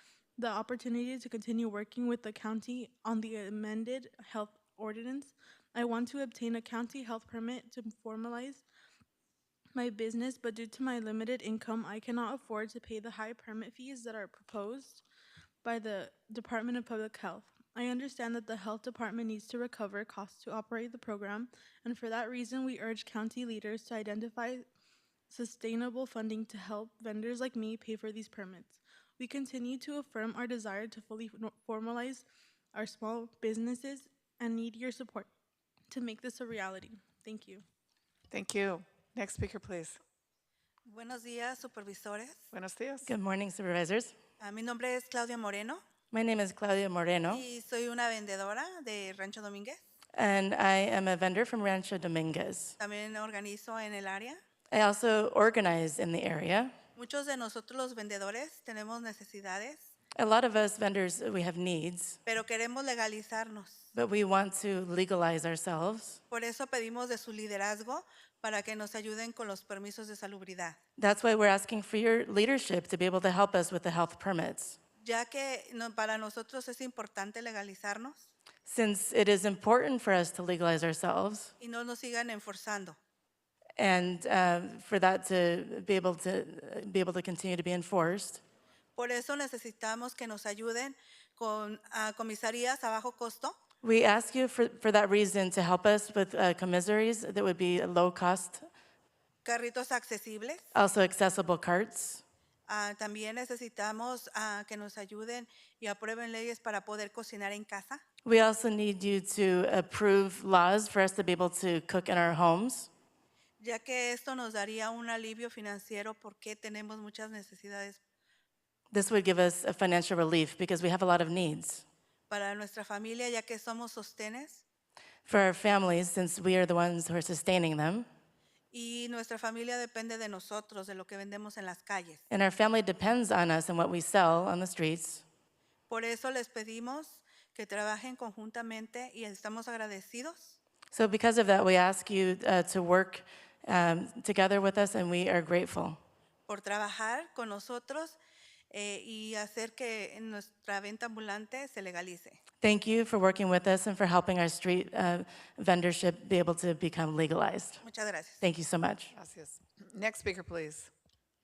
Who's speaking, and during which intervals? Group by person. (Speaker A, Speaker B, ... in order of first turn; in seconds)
Speaker A: 0.4-8.6, 9.8-15.0, 15.6-24.6, 25.3-35.3, 35.9-37.6
Speaker B: 38.3-40.0, 42.5-43.0, 159.1-160.9
Speaker C: 40.9-42.5, 44.4-45.8, 47.3-49.8, 52.8-54.4, 57.0-59.9, 62.2-63.9, 66.3-70.8, 75.0-78.3, 81.6-83.0, 89.0-93.6, 99.4-100.7, 102.7-108.0, 113.6-118.0, 122.3-124.6, 128.7-132.2, 135.9-140.6, 146.5-148.2, 148.7-152.4, 157.8-158.4
Speaker D: 43.0-44.1, 46.1-47.4, 50.1-52.8, 54.7-56.7, 60.2-62.2, 63.9-66.2, 71.0-74.8, 78.7-81.5, 83.8-88.4, 93.8-98.7, 100.7-102.2, 108.2-112.9, 118.9-121.8, 125.3-128.1, 132.3-135.2, 140.9-146.0, 152.6-157.8, 158.4-159.1